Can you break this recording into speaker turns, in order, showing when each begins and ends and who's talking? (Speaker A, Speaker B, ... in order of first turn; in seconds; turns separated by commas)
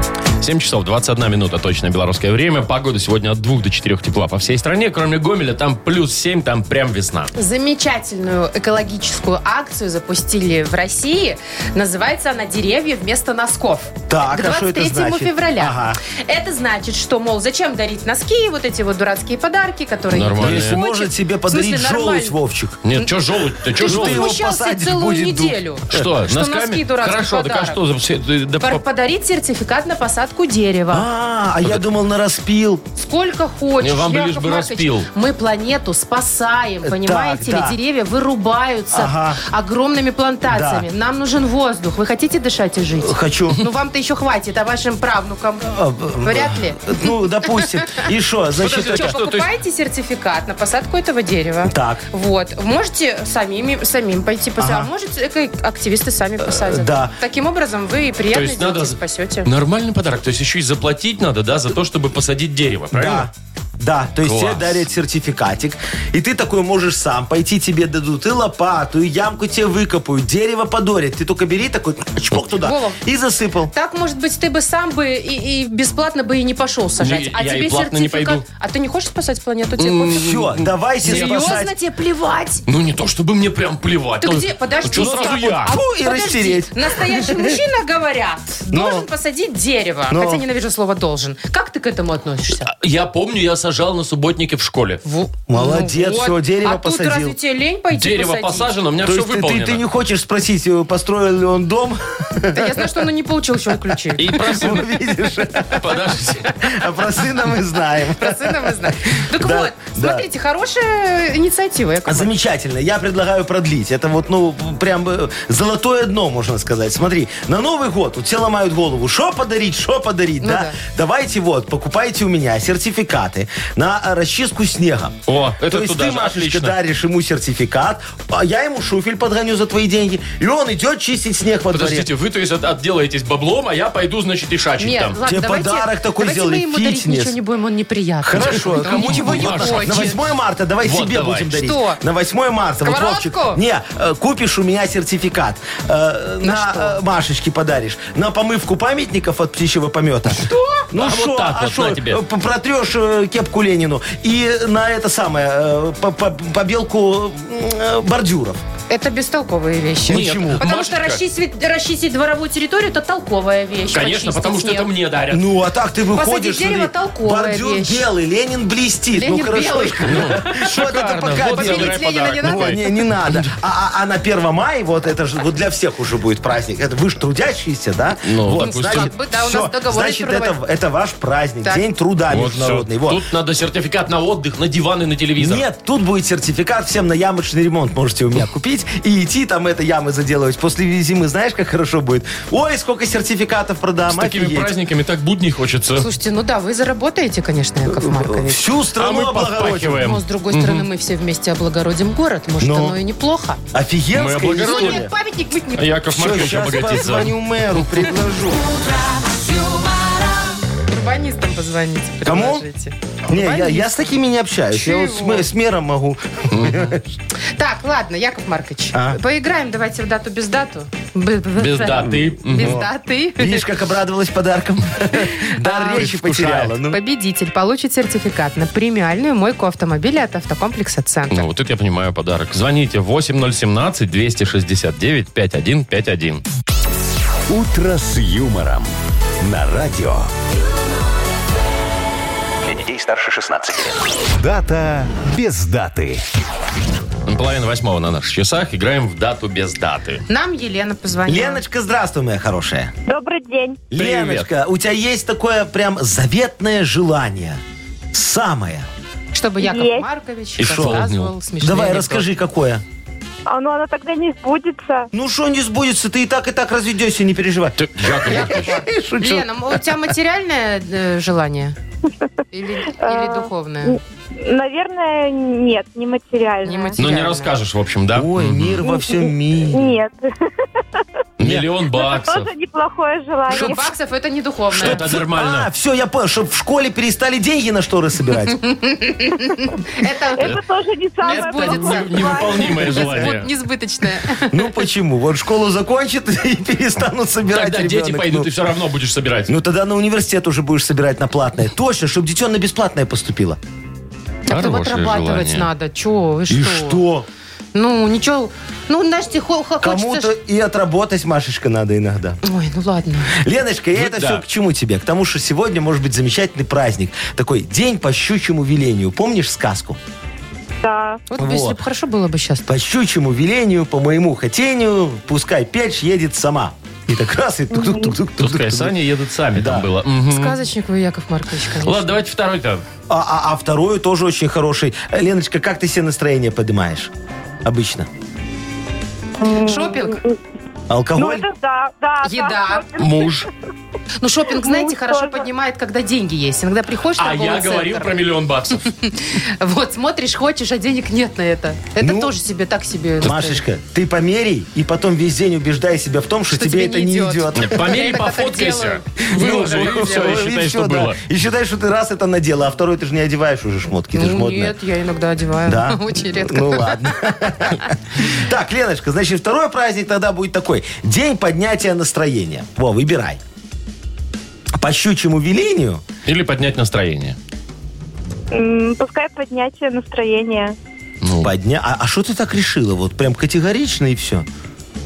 Speaker A: 0.4-7.3, Speaker B: 7.3-22.4, Speaker C: 14.1-16.0, Speaker A: 20.1-20.8, Speaker C: 20.4-22.9, Speaker A: 22.8-24.3, Speaker C: 23.6-26.1, Speaker B: 23.8-27.8, Speaker A: 25.9-28.8, Speaker B: 28.6-31.1, Speaker C: 30.9-32.9, Speaker B: 33.0-48.0, Speaker A: 33.8-35.1, Speaker C: 36.8-37.8, Speaker C: 38.9-39.4, Speaker C: 40.5-40.9, Speaker C: 43.0-43.6, Speaker C: 45.6-49.2, Speaker A: 48.6-49.5, Speaker B: 48.9-59.5, Speaker C: 51.6-52.0, Speaker C: 54.6-54.9, Speaker C: 56.4-57.2, Speaker A: 58.3-63.3, Speaker C: 62.9-73.7, Speaker A: 64.2-64.8, Speaker B: 72.6-73.0, Speaker B: 73.7-80.2, Speaker A: 77.0-78.4, Speaker A: 79.8-81.5, Speaker C: 80.1-81.7, Speaker B: 81.0-82.6, Speaker A: 82.7-85.7, Speaker B: 84.2-92.7, Speaker C: 84.9-87.6, Speaker C: 88.7-89.1, Speaker C: 90.1-90.4, Speaker A: 92.7-95.0, Speaker B: 95.0-98.7, Speaker C: 95.5-97.4, Speaker A: 97.9-99.8, Speaker C: 99.0-103.0, Speaker B: 102.5-104.7, Speaker A: 104.2-105.0, Speaker C: 104.3-110.2, Speaker A: 105.7-106.5, Speaker B: 108.2-112.3, Speaker C: 112.1-125.2, Speaker B: 120.4-120.8, Speaker A: 125.3-126.8, Speaker C: 125.7-132.1, Speaker A: 131.7-135.2, Speaker B: 134.8-140.2, Speaker C: 135.2-137.4, Speaker C: 138.2-158.6, Speaker A: 138.4-140.2, Speaker A: 140.8-141.6, Speaker B: 141.5-142.0, Speaker B: 142.8-143.6, Speaker B: 146.4-147.0, Speaker A: 150.9-152.2, Speaker B: 158.9-164.9, Speaker C: 160.1-160.6, Speaker A: 160.1-161.2, Speaker A: 163.9-165.4, Speaker C: 165.3-183.2, Speaker B: 166.1-168.1, Speaker B: 169.1-170.7, Speaker A: 170.1-173.5, Speaker B: 171.3-173.0, Speaker A: 178.2-179.1, Speaker B: 178.6-180.6, Speaker A: 182.3-185.7, Speaker C: 185.4-194.7, Speaker A: 194.1-196.1, Speaker B: 196.0-198.6, Speaker C: 197.8-200.1, Speaker A: 199.0-200.9, Speaker B: 200.0-203.6, Speaker C: 202.6-203.0, Speaker C: 203.7-205.1, Speaker A: 204.1-205.1, Speaker B: 204.6-205.9, Speaker A: 205.8-207.4, Speaker C: 206.1-208.7, Speaker D: 208.6-210.6, Speaker B: 210.9-214.2, Speaker C: 212.2-212.7, Speaker C: 213.3-217.2, Speaker B: 214.7-215.5, Speaker A: 216.5-217.0, Speaker B: 217.6-223.7, Speaker C: 218.9-219.2, Speaker A: 221.6-222.8, Speaker C: 222.3-227.0, Speaker B: 225.4-226.1, Speaker A: 225.9-226.8, Speaker B: 226.9-231.4, Speaker A: 231.3-236.4, Speaker E: 237.5-240.3, Speaker E: 242.6-246.2, Speaker A: 247.3-250.2, Speaker B: 250.3-251.6, Speaker C: 251.3-252.9, Speaker D: 253.1-253.9, Speaker C: 253.9-257.6, Speaker A: 253.9-254.5, Speaker C: 258.1-258.9, Speaker B: 259.3-262.3, Speaker D: 259.6-260.1, Speaker A: 260.6-261.3, Speaker C: 260.6-261.0, Speaker C: 261.6-262.8, Speaker D: 263.5-265.1, Speaker C: 265.1-269.9, Speaker A: 267.8-268.7, Speaker B: 268.3-271.8, Speaker B: 272.5-274.0, Speaker D: 273.0-277.0, Speaker B: 276.6-277.5, Speaker A: 277.0-278.8, Speaker C: 278.1-279.9, Speaker D: 278.8-280.3, Speaker A: 281.4-282.5, Speaker C: 281.4-281.7, Speaker D: 281.9-283.9, Speaker B: 283.5-285.1, Speaker C: 284.7-288.6, Speaker A: 284.7-285.7, Speaker B: 288.5-290.6, Speaker D: 290.4-293.1, Speaker B: 291.2-294.7, Speaker A: 291.3-293.5, Speaker C: 294.5-298.5, Speaker A: 297.5-299.6, Speaker C: 299.5-303.6, Speaker B: 304.5-307.0, Speaker A: 304.5-305.7, Speaker C: 306.5-307.3, Speaker B: 307.8-310.3, Speaker C: 309.8-312.4, Speaker B: 312.4-313.4, Speaker C: 313.4-320.0, Speaker A: 314.0-314.4, Speaker D: 320.8-321.2, Speaker B: 321.3-322.7, Speaker C: 321.4-321.8, Speaker C: 322.7-329.0, Speaker D: 327.7-328.1, Speaker A: 328.4-330.6, Speaker C: 329.5-329.9, Speaker B: 330.3-332.2, Speaker A: 331.8-332.8, Speaker C: 333.1-337.1, Speaker C: 337.6-338.1, Speaker B: 339.4-340.2, Speaker D: 339.4-340.4, Speaker C: 340.9-341.5, Speaker D: 341.2-343.5, Speaker B: 342.2-342.9, Speaker A: 343.0-343.5, Speaker B: 344.2-348.2, Speaker D: 344.5-345.5, Speaker A: 347.2-348.9, Speaker B: 348.9-353.6, Speaker C: 352.0-352.3, Speaker C: 353.2-358.0, Speaker B: 356.5-360.4, Speaker A: 357.6-361.2, Speaker C: 359.3-364.8, Speaker B: 364.1-367.9, Speaker C: 365.6-373.4, Speaker C: 374.8-376.0, Speaker A: 376.3-377.4, Speaker D: 378.5-380.8, Speaker A: 381.2-381.5, Speaker C: 381.4-384.5